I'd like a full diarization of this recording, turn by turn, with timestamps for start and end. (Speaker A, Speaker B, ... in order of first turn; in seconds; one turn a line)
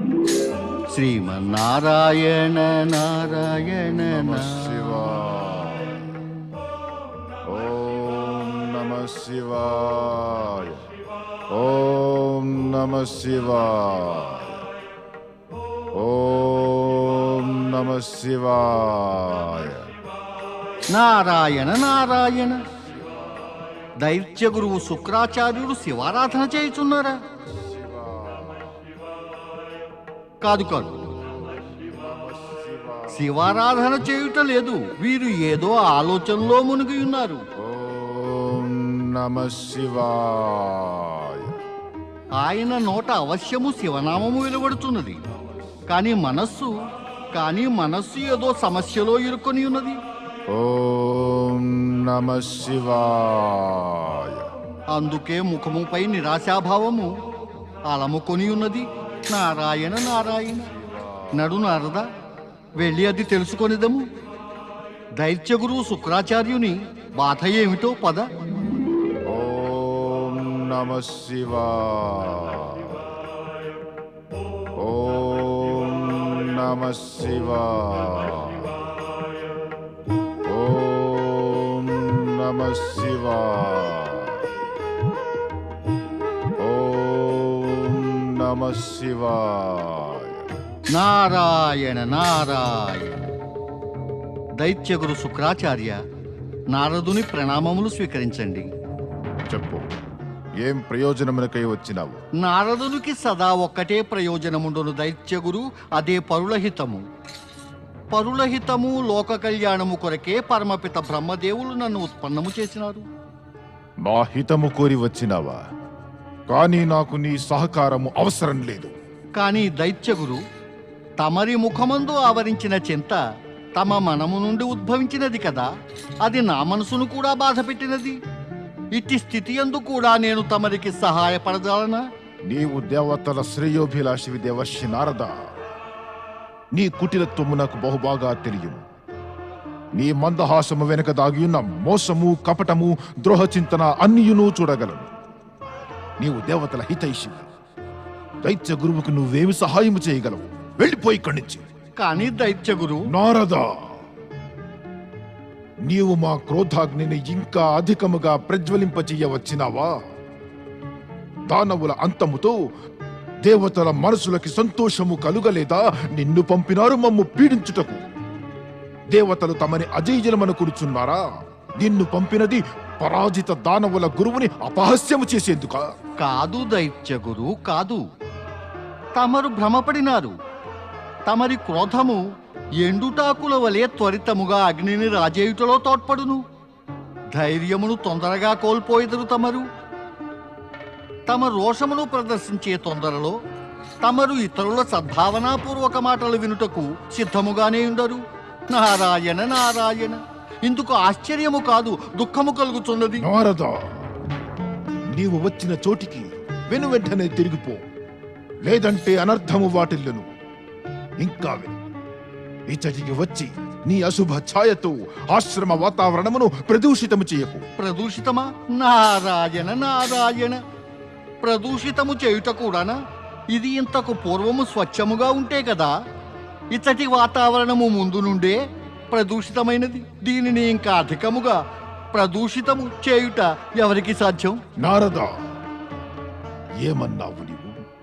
Speaker A: 0.9-4.9
Speaker B: 4.1-6.0
Speaker B: 7.5-10.8
Speaker B: 11.5-14.6
Speaker B: 15.9-19.8
Speaker A: 20.9-22.6
Speaker B: 22.8-23.5
Speaker A: 24.0-27.2
Speaker B: 27.6-28.8
Speaker A: 30.4-30.9
Speaker B: 31.3-33.3
Speaker A: 33.1-37.4
Speaker B: 37.6-41.5
Speaker A: 42.4-45.2
Speaker A: 45.9-46.7
Speaker A: 47.3-50.0
Speaker B: 50.5-54.4
Speaker A: 54.9-57.1
Speaker A: 57.9-60.7
Speaker B: 60.7-61.5
Speaker A: 61.4-62.1
Speaker A: 62.8-64.0
Speaker A: 65.2-68.3
Speaker B: 69.3-73.0
Speaker B: 74.8-78.7
Speaker B: 80.5-84.4
Speaker B: 86.6-90.3
Speaker A: 90.9-93.2
Speaker A: 94.6-96.0
Speaker A: 96.7-98.7
Speaker B: 99.5-99.9
Speaker B: 100.6-102.2
Speaker A: 102.4-107.0
Speaker A: 108.1-113.0
Speaker B: 114.0-115.6
Speaker B: 116.5-118.9
Speaker A: 119.4-120.4
Speaker A: 121.2-123.2
Speaker A: 123.8-125.7
Speaker A: 126.2-128.2
Speaker A: 128.9-132.0
Speaker B: 132.5-135.4
Speaker B: 136.7-138.8
Speaker B: 140.0-145.1
Speaker B: 146.2-147.5
Speaker B: 148.4-151.6
Speaker A: 152.0-153.0
Speaker B: 153.1-153.7
Speaker B: 155.9-159.9
Speaker B: 161.5-162.6
Speaker B: 163.4-168.0
Speaker B: 169.1-171.2
Speaker B: 171.8-175.9
Speaker A: 176.2-178.0
Speaker A: 179.2-180.3
Speaker A: 181.3-182.2
Speaker A: 182.8-186.4
Speaker A: 187.3-189.7
Speaker A: 191.3-193.3
Speaker A: 194.0-203.2
Speaker B: 203.2-203.7
Speaker B: 205.1-207.8
Speaker B: 208.7-210.3
Speaker B: 211.2-211.7
Speaker B: 212.7-217.7
Speaker A: 217.8-220.6
Speaker A: 221.4-223.0
Speaker A: 223.5-225.9
Speaker A: 226.7-228.6
Speaker A: 229.1-231.6
Speaker A: 232.1-234.6
Speaker B: 234.8-235.3
Speaker B: 236.8-237.7